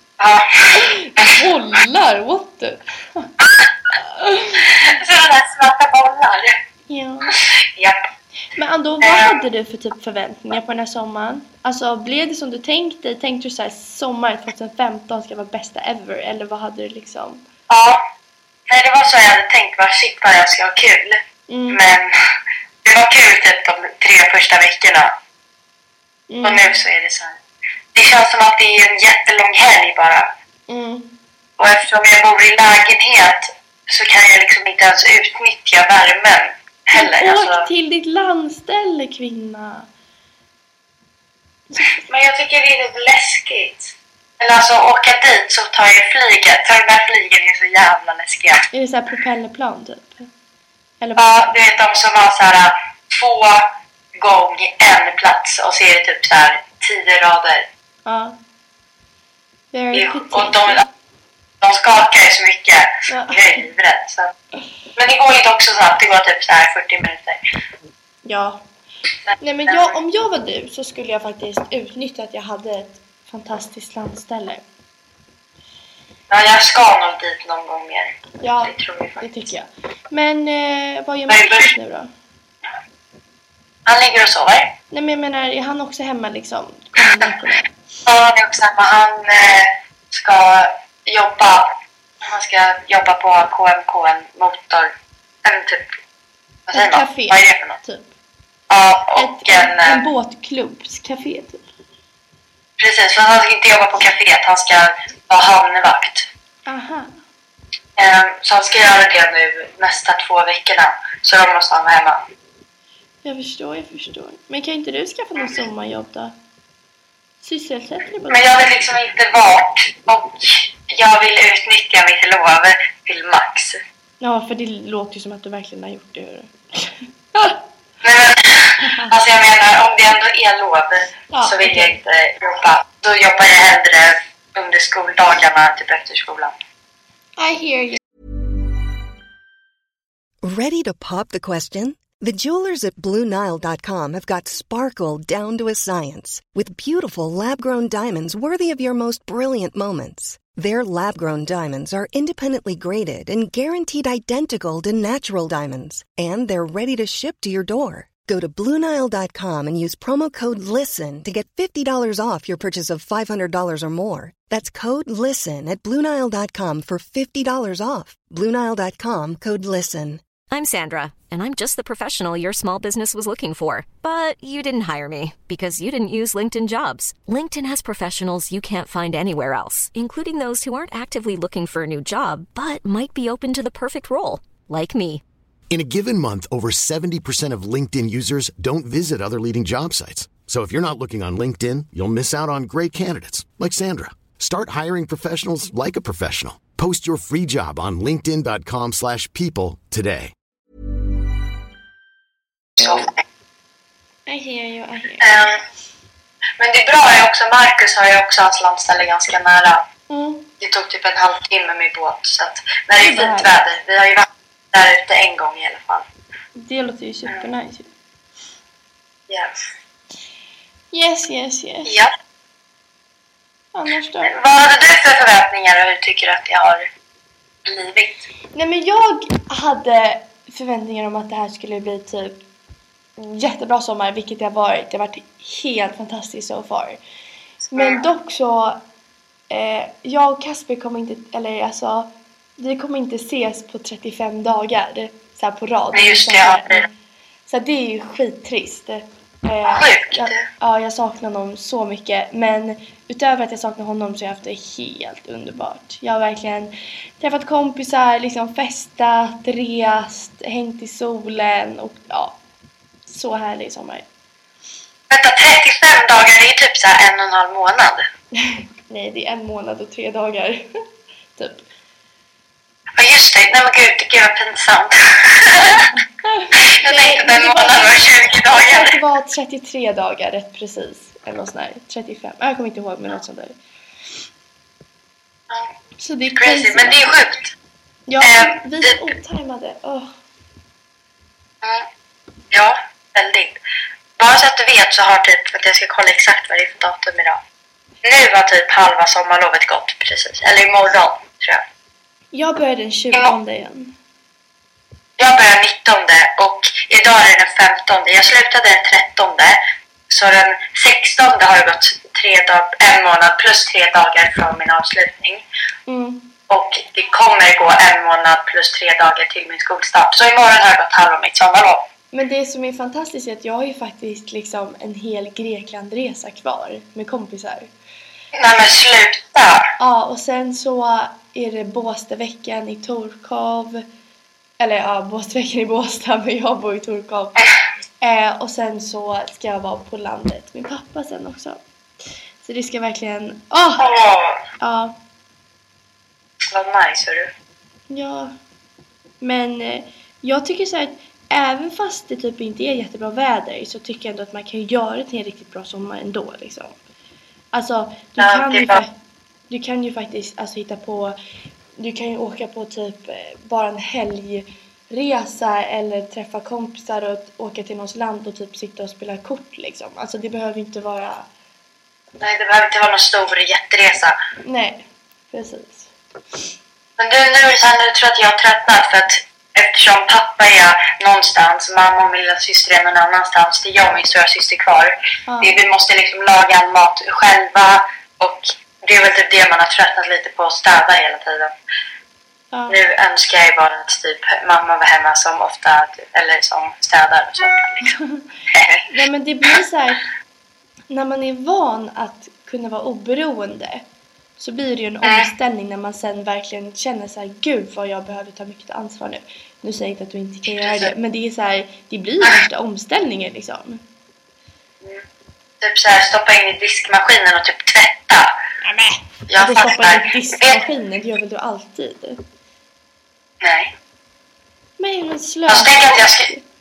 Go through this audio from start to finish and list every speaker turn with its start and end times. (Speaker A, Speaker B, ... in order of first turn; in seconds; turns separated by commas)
Speaker A: 0.2-1.4, Speaker B: 0.8-3.3, Speaker B: 3.9-4.5, Speaker A: 4.5-6.5, Speaker B: 6.9-7.4, Speaker A: 7.3-8.0, Speaker B: 8.6-17.4, Speaker A: 9.0-9.4, Speaker A: 17.7-18.0, Speaker A: 18.7-22.1, Speaker B: 21.5-21.8, Speaker A: 22.9-25.1, Speaker B: 26.3-26.7, Speaker A: 26.4-27.4, Speaker A: 27.9-30.3, Speaker B: 30.7-31.1, Speaker A: 31.6-37.6, Speaker B: 36.9-39.9, Speaker B: 41.7-42.0, Speaker A: 42.1-48.7, Speaker B: 48.7-50.3, Speaker B: 51.0-51.5, Speaker A: 51.2-53.7, Speaker A: 54.2-57.6, Speaker B: 58.0-58.4, Speaker B: 59.7-60.9, Speaker A: 59.9-60.9, Speaker A: 61.6-64.3, Speaker B: 63.1-63.6, Speaker A: 65.0-67.4, Speaker B: 68.2-68.6, Speaker A: 69.3-69.9, Speaker B: 69.4-74.7, Speaker A: 76.3-79.4, Speaker B: 78.4-82.1, Speaker A: 81.3-81.7, Speaker A: 83.9-84.7, Speaker B: 84.9-87.7, Speaker A: 88.1-91.7, Speaker A: 92.2-94.9, Speaker A: 95.5-96.0, Speaker A: 96.7-97.8, Speaker B: 96.7-98.1, Speaker A: 98.7-100.0, Speaker B: 99.2-101.7, Speaker A: 102.8-106.3, Speaker B: 106.7-107.1, Speaker A: 108.0-112.2, Speaker B: 113.2-116.3, Speaker B: 117.4-118.7, Speaker A: 118.3-123.8, Speaker B: 124.2-127.6, Speaker A: 128.0-136.5, Speaker B: 128.8-129.1, Speaker B: 131.3-132.0, Speaker B: 137.4-138.0, Speaker C: 140.4-170.2, Speaker D: 170.5-185.2, Speaker E: 185.7-200.3, Speaker B: 202.8-203.1, Speaker A: 202.8-203.2, Speaker B: 204.3-205.4, Speaker A: 205.2-205.6, Speaker A: 206.6-209.8, Speaker B: 210.1-210.5, Speaker A: 210.6-216.1, Speaker B: 213.0-213.5, Speaker B: 216.6-217.9, Speaker A: 219.3-219.7, Speaker B: 220.9-221.9, Speaker B: 223.7-224.3, Speaker A: 224.2-226.9, Speaker A: 227.7-228.3, Speaker B: 228.5-232.4, Speaker B: 233.2-237.0, Speaker B: 237.7-238.8, Speaker A: 237.8-238.0, Speaker B: 239.5-246.9, Speaker A: 245.9-246.8, Speaker B: 247.5-262.4, Speaker A: 249.6-250.4, Speaker B: 263.1-264.1, Speaker A: 265.1-268.1, Speaker B: 268.4-270.7, Speaker B: 271.4-271.6, Speaker A: 273.0-275.9, Speaker B: 276.3-283.6, Speaker A: 276.6-279.0, Speaker B: 286.0-287.1, Speaker A: 286.3-287.5, Speaker B: 288.1-290.1, Speaker A: 288.2-289.1, Speaker A: 292.5-293.6, Speaker A: 294.2-297.4, Speaker A: 298.0-301.6, Speaker B: 302.3-303.9, Speaker A: 305.2-309.6, Speaker A: 310.1-315.4, Speaker B: 315.9-316.3, Speaker A: 316.5-321.8, Speaker B: 322.1-327.7, Speaker A: 328.3-329.6, Speaker B: 329.8-333.8, Speaker B: 334.6-337.5, Speaker B: 338.0-341.6, Speaker B: 342.4-343.9, Speaker A: 343.8-344.4, Speaker B: 344.6-344.9, Speaker A: 346.5-347.3, Speaker B: 347.9-348.3, Speaker B: 349.2-356.8, Speaker B: 357.5-358.9, Speaker A: 358.2-358.8, Speaker B: 359.5-361.2, Speaker B: 361.8-371.3, Speaker A: 372.2-374.1, Speaker B: 374.4-375.9, Speaker A: 377.0-391.5, Speaker B: 385.3-385.6, Speaker B: 392.5-392.8, Speaker A: 392.7-398.0, Speaker A: 398.5-398.8, Speaker B: 398.9-400.0, Speaker B: 400.9-403.9, Speaker B: 404.4-413.8, Speaker A: 410.6-410.9, Speaker A: 415.6-418.3, Speaker B: 418.6-422.2, Speaker A: 419.3-420.6, Speaker A: 423.4-423.7, Speaker B: 424.8-426.5, Speaker A: 425.5-426.3